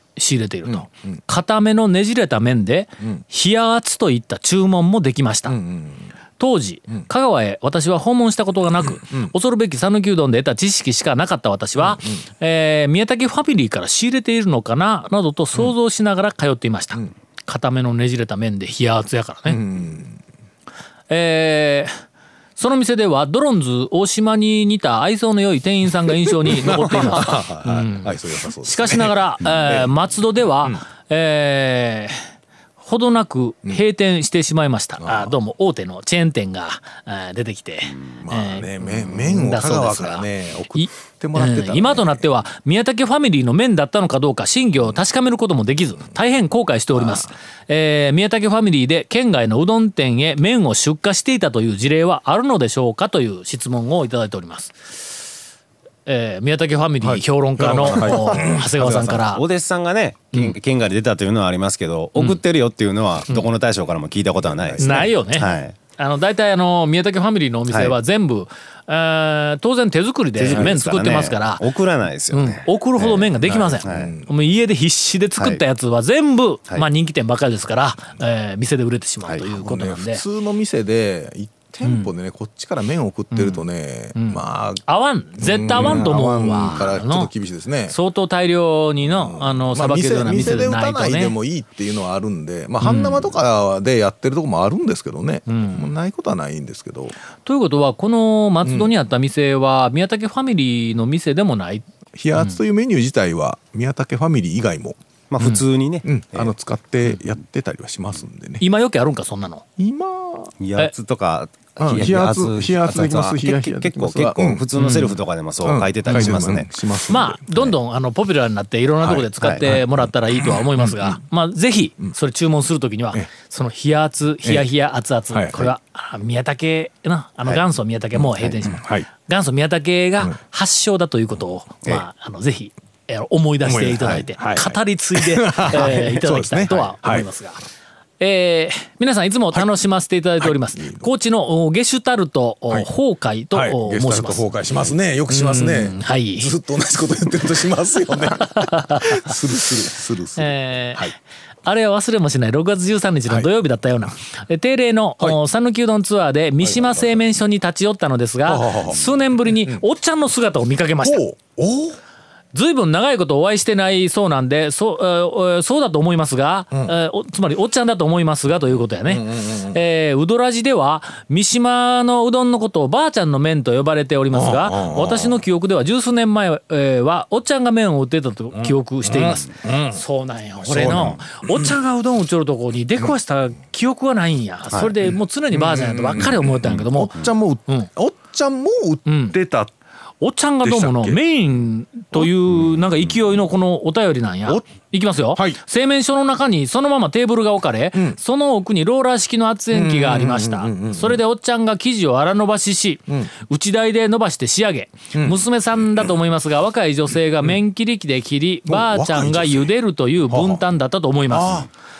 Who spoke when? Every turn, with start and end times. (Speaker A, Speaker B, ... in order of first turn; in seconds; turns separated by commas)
Speaker A: 0.1-5.5, Speaker B: 0.6-1.2, Speaker B: 5.5-6.1, Speaker A: 6.4-19.6, Speaker B: 8.8-9.3, Speaker B: 11.8-12.2, Speaker B: 19.5-20.2, Speaker A: 21.1-21.9, Speaker A: 22.6-32.2, Speaker B: 26.4-29.9, Speaker A: 32.8-54.9, Speaker B: 35.0-35.4, Speaker B: 38.1-42.3, Speaker B: 46.9-47.3, Speaker A: 56.0-59.4, Speaker B: 57.6-59.1, Speaker C: 57.9-65.8, Speaker A: 62.1-62.4, Speaker B: 64.4-65.1, Speaker A: 64.8-71.7, Speaker C: 67.7-68.0, Speaker C: 70.3-74.1, Speaker A: 72.3-80.2, Speaker B: 73.8-74.3, Speaker C: 75.4-75.6, Speaker B: 79.5-84.8, Speaker A: 81.8-82.1, Speaker A: 83.3-83.6, Speaker A: 84.1-87.3, Speaker B: 85.4-87.9, Speaker C: 85.8-86.0, Speaker A: 87.9-91.3, Speaker B: 89.0-97.1, Speaker A: 92.8-93.3, Speaker A: 95.5-95.9, Speaker A: 97.4-101.8, Speaker B: 98.6-98.9, Speaker B: 102.1-105.0, Speaker C: 105.3-106.5, Speaker B: 106.0-108.6, Speaker A: 108.6-109.6, Speaker B: 109.8-110.5, Speaker C: 110.6-116.7, Speaker B: 111.8-115.1, Speaker A: 114.8-115.2, Speaker B: 115.6-117.4, Speaker A: 116.0-116.5, Speaker A: 117.1-137.6, Speaker B: 119.0-121.2, Speaker C: 119.4-119.7, Speaker B: 125.3-125.7, Speaker B: 128.2-129.1, Speaker B: 133.6-137.2, Speaker C: 134.0-134.2, Speaker A: 138.2-144.5, Speaker B: 140.4-141.1, Speaker B: 143.5-151.1, Speaker A: 145.3-146.5, Speaker A: 148.4-149.1, Speaker A: 150.4-151.1, Speaker A: 151.6-161.2, Speaker B: 156.6-157.1, Speaker B: 158.5-159.8, Speaker B: 161.0-162.0, Speaker A: 162.5-187.9, Speaker B: 169.1-169.8, Speaker B: 174.3-175.4, Speaker B: 178.5-180.0, Speaker B: 180.6-181.8, Speaker B: 185.0-189.7, Speaker A: 189.1-189.4, Speaker A: 190.2-211.7, Speaker B: 190.6-191.2, Speaker B: 199.7-201.2, Speaker B: 208.7-209.7, Speaker B: 210.3-210.6, Speaker B: 211.3-211.7